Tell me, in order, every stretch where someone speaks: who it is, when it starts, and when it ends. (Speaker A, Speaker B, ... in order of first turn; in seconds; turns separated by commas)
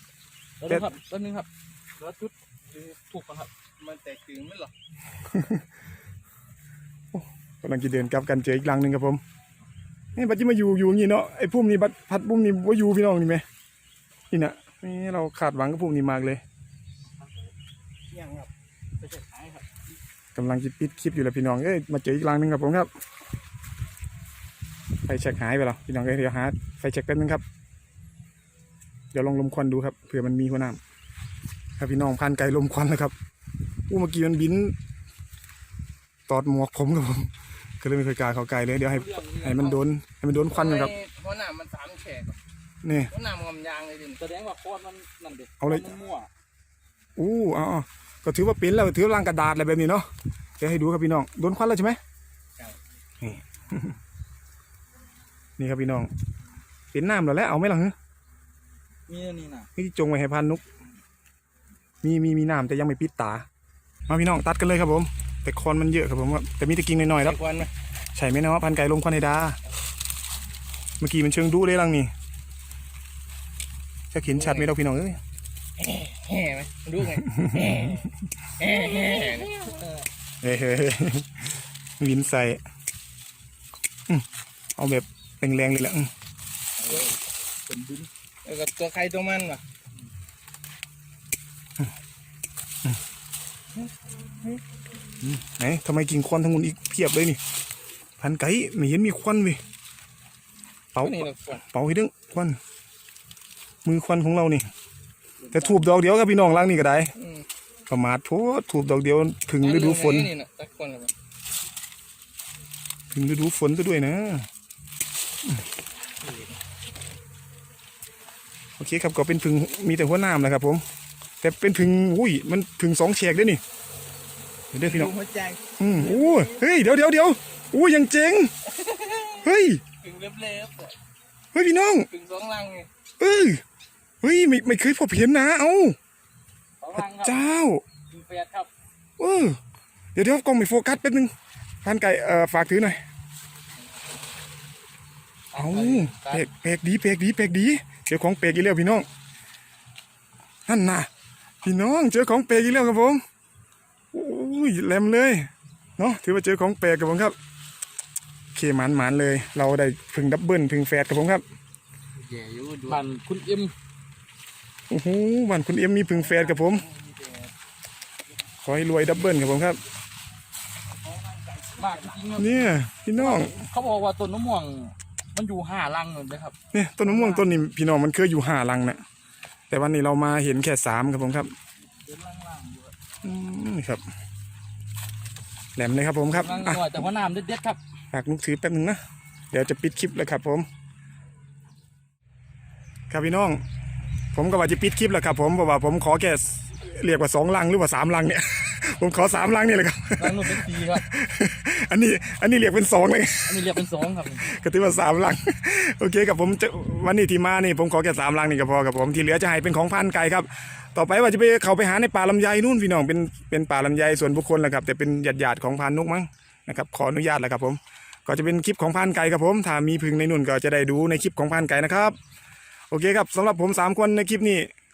Speaker A: 0.6-3.5, Speaker B: 3.8-4.7, Speaker C: 5.2-5.6, Speaker C: 7.1-9.2, Speaker C: 10.2-13.4, Speaker C: 14.3-16.4, Speaker A: 17.1-17.5, Speaker B: 18.1-18.5, Speaker A: 19.0-19.6, Speaker C: 20.4-22.9, Speaker C: 25.0-27.4, Speaker C: 29.1-30.8, Speaker C: 31.8-33.1, Speaker C: 33.9-34.8, Speaker C: 36.3-40.9, Speaker A: 38.9-39.8, Speaker B: 40.5-42.4, Speaker C: 42.8-43.1, Speaker B: 43.1-44.2, Speaker A: 44.2-46.3, Speaker C: 45.6-45.9, Speaker C: 47.2-50.1, Speaker C: 50.6-52.0, Speaker C: 53.2-54.0, Speaker C: 55.6-56.1, Speaker C: 56.9-57.9, Speaker A: 59.1-59.7, Speaker C: 59.8-60.6, Speaker C: 62.0-63.5, Speaker C: 64.1-67.4, Speaker B: 67.2-67.7, Speaker C: 68.2-69.6, Speaker C: 71.0-72.1, Speaker C: 74.1-75.2, Speaker B: 74.3-74.7, Speaker B: 75.8-78.1, Speaker C: 77.3-77.9, Speaker B: 78.6-79.5, Speaker A: 78.9-80.1, Speaker C: 80.4-82.6, Speaker C: 84.8-86.1, Speaker A: 86.8-88.1, Speaker B: 88.5-89.6, Speaker C: 95.2-97.4, Speaker C: 98.2-99.6, Speaker C: 101.0-102.6, Speaker B: 101.0-101.6, Speaker C: 103.8-104.7, Speaker A: 105.4-105.8, Speaker C: 105.5-107.1, Speaker B: 107.2-107.5, Speaker C: 107.9-110.3, Speaker B: 109.6-111.1, Speaker C: 113.1-114.5, Speaker C: 118.8-120.8, Speaker C: 121.4-123.6, Speaker C: 124.7-125.1, Speaker B: 124.8-126.5, Speaker C: 125.8-128.5, Speaker B: 128.7-129.5, Speaker C: 129.4-129.8, Speaker B: 130.0-131.0, Speaker C: 131.5-132.1, Speaker B: 132.1-132.9, Speaker C: 133.2-133.6, Speaker C: 134.2-136.0, Speaker A: 136.8-137.4, Speaker C: 136.9-137.8, Speaker A: 138.1-138.7, Speaker C: 139.2-139.6, Speaker C: 140.2-141.3, Speaker C: 141.8-143.0, Speaker A: 145.5-146.4, Speaker C: 145.5-149.1, Speaker C: 150.7-151.1, Speaker C: 151.6-153.2, Speaker C: 154.1-157.3, Speaker C: 158.5-161.4, Speaker B: 162.2-163.0, Speaker A: 162.9-163.7, Speaker C: 164.9-166.8, Speaker B: 166.1-167.5, Speaker C: 168.6-169.8, Speaker B: 170.9-172.2, Speaker A: 171.8-177.5, Speaker C: 172.4-173.6, Speaker C: 176.7-179.0, Speaker C: 179.7-181.5, Speaker A: 182.0-182.9, Speaker C: 183.2-184.0, Speaker C: 185.8-187.0, Speaker A: 186.3-187.8, Speaker C: 188.1-189.0, Speaker C: 189.5-190.7, Speaker C: 193.1-193.6, Speaker C: 194.3-203.8, Speaker A: 200.2-201.0, Speaker A: 203.4-204.5, Speaker C: 204.3-222.2, Speaker C: 222.9-224.7